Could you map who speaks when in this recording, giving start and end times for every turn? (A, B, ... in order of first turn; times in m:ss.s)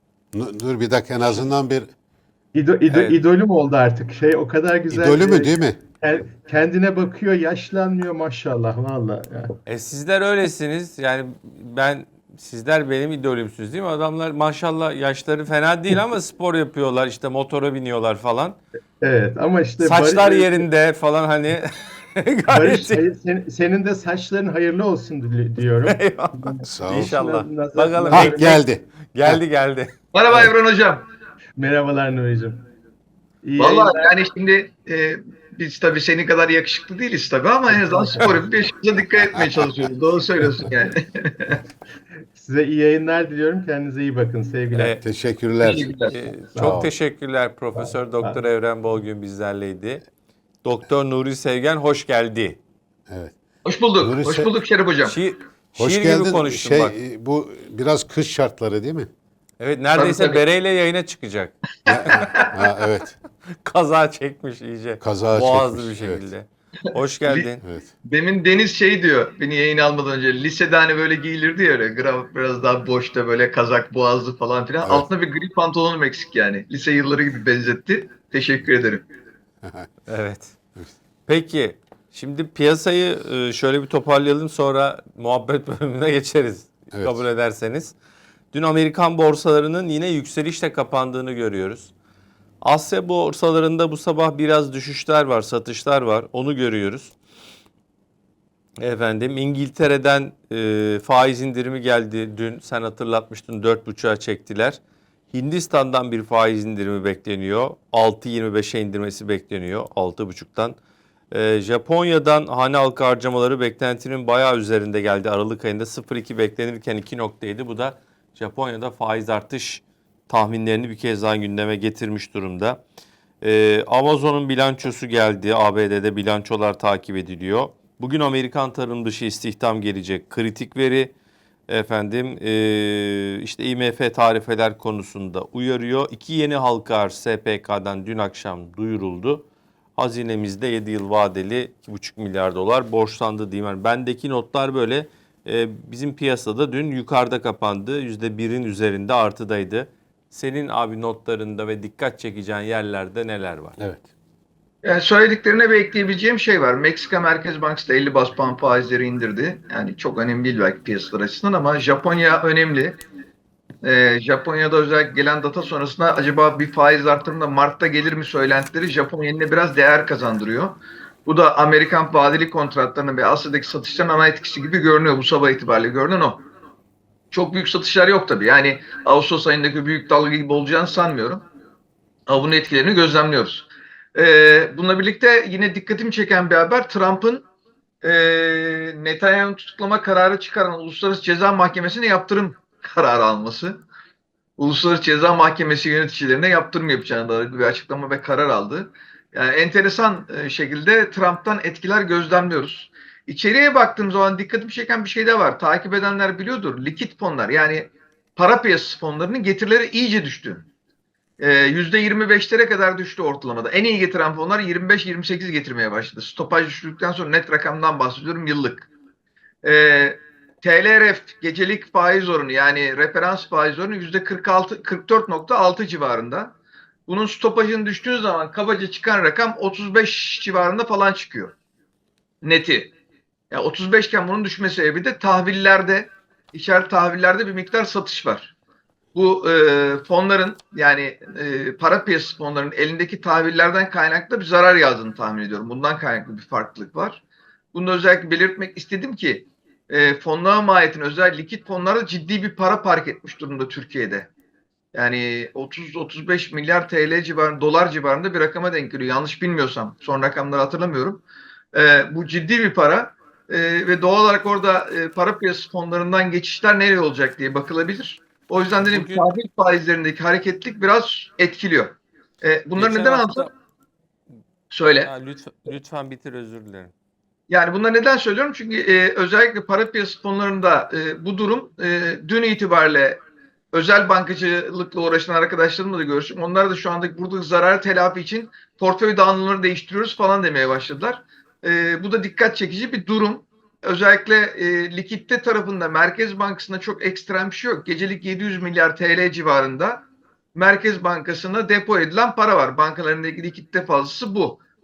0:00.3-0:01.9 A
0:02.5-0:09.5 B
0:02.9-0:03.2 C
0:04.9-0:05.8 A
0:09.7-0:18.6 C
0:19.0-0:20.6 B
0:19.8-0:23.0 C
0:22.5-0:28.6 B
0:25.8-0:29.9 C
0:26.7-0:27.2 A
0:28.1-0:29.4 A
0:30.1-0:31.1 D
0:31.6-0:32.6 B
0:33.4-0:34.0 B
0:33.6-0:41.6 D
0:37.8-0:38.4 B
0:39.3-0:39.7 A
0:42.3-0:45.0 B
0:44.7-0:45.0 C
0:45.0-0:46.0 A
0:45.6-0:46.2 D
0:46.1-0:50.0 C
0:46.4-0:46.8 B
0:46.6-0:46.9 A
0:47.8-0:48.4 B
0:50.6-0:52.6 C
0:53.6-0:55.2 D
0:54.0-0:54.6 A
0:55.0-0:57.0 C
0:55.8-0:59.1 A
0:59.6-1:01.5 C
1:00.0-1:00.4 D
1:01.9-1:02.5 D
1:01.9-1:03.1 A
1:02.1-1:02.6 C
1:03.6-1:07.6 C
1:05.0-1:06.3 A
1:07.6-1:07.9 A
1:08.0-1:19.0 D
1:14.8-1:15.1 A
1:19.6-1:19.9 A
1:20.1-1:20.6 C
1:21.3-1:28.0 C
1:26.9-1:27.2 A
1:28.5-1:31.9 C
1:32.6-1:37.2 C
1:38.8-1:44.8 C
1:45.3-1:50.8 C
1:51.3-2:02.8 C
2:03.4-2:11.1 C
2:11.7-2:19.4 C
2:20.0-2:33.8 C
2:34.8-2:43.0 D
2:43.8-2:56.4 D
2:57.3-3:01.4 D
3:02.3-3:07.4 D
3:08.0-3:13.8 D
3:14.6-3:30.7 D
3:31.4-3:38.9 D
3:39.6-3:46.5 D
3:47.1-3:51.5 D
3:52.4-3:52.9 D
3:53.5-3:58.5 D
3:59.2-4:07.2 D
4:07.7-4:14.3 D
4:14.9-4:21.2 D
4:21.7-4:33.5 D
4:28.8-4:29.3 C
4:32.8-4:33.5 C
4:34.7-4:35.1 D
4:35.0-4:36.9 C
4:37.5-4:43.2 D
4:43.7-5:00.0 D
5:00.6-5:04.6 D